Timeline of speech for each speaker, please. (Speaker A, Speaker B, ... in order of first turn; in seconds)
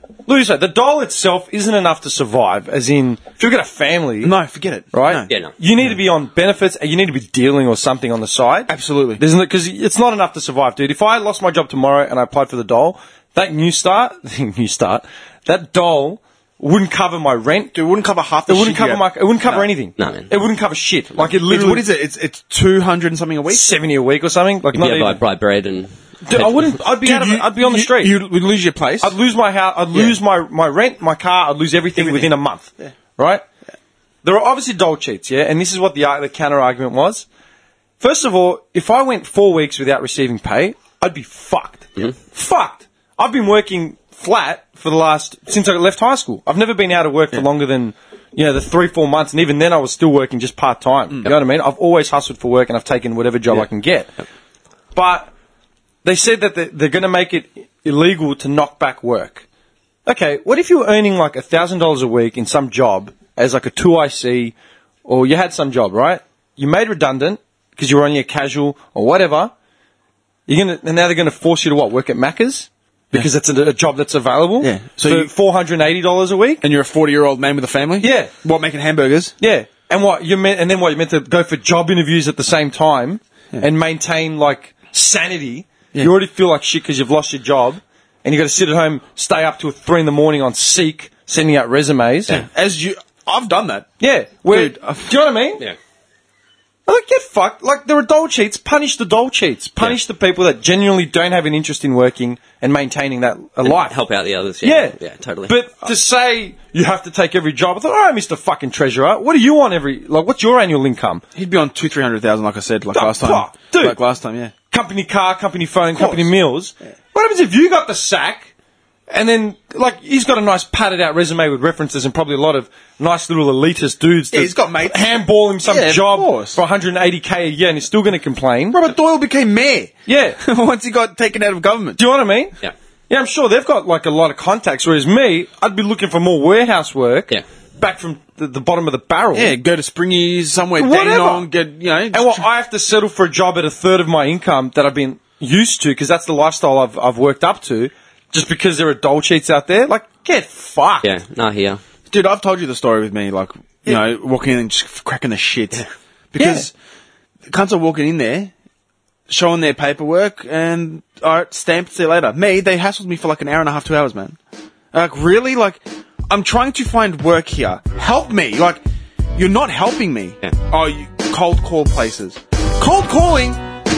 Speaker A: 0.2-4.4, 4.9-17.7, 18.4-21.9, 23.5-25.2, 26.2-28.2, 29.0-33.4, 34.2-37.2, 38.0-54.1, 54.9-55.3, 56.0-59.5, 60.0-69.5, 70.5-76.7, 78.0-78.3, 79.4-92.5, 94.0-95.7, 96.8-103.9, 104.6-105.0, 105.5-111.2, 112.9-114.0, 114.7-118.5, 119.1-128.9, 130.1-130.4, 132.0-132.5, 133.1-139.6, 140.8-141.5, 142.1-151.1, 156.4-156.7
Speaker B: 4.2-5.3, 8.7-9.2, 17.7-19.7, 21.4-23.7, 27.0-29.1, 32.0-32.9, 74.6-75.3, 76.6-79.3, 92.3-93.9, 94.5-95.1, 111.3-114.5, 115.9-116.3, 124.3-126.6, 128.7-132.0, 139.3-142.4, 152.1-156.7, 157.5-158.5, 159.3-164.4, 164.9-168.8, 169.3-173.6
Speaker C: 20.0-20.3, 24.7-26.7, 103.6-105.5, 151.0-151.8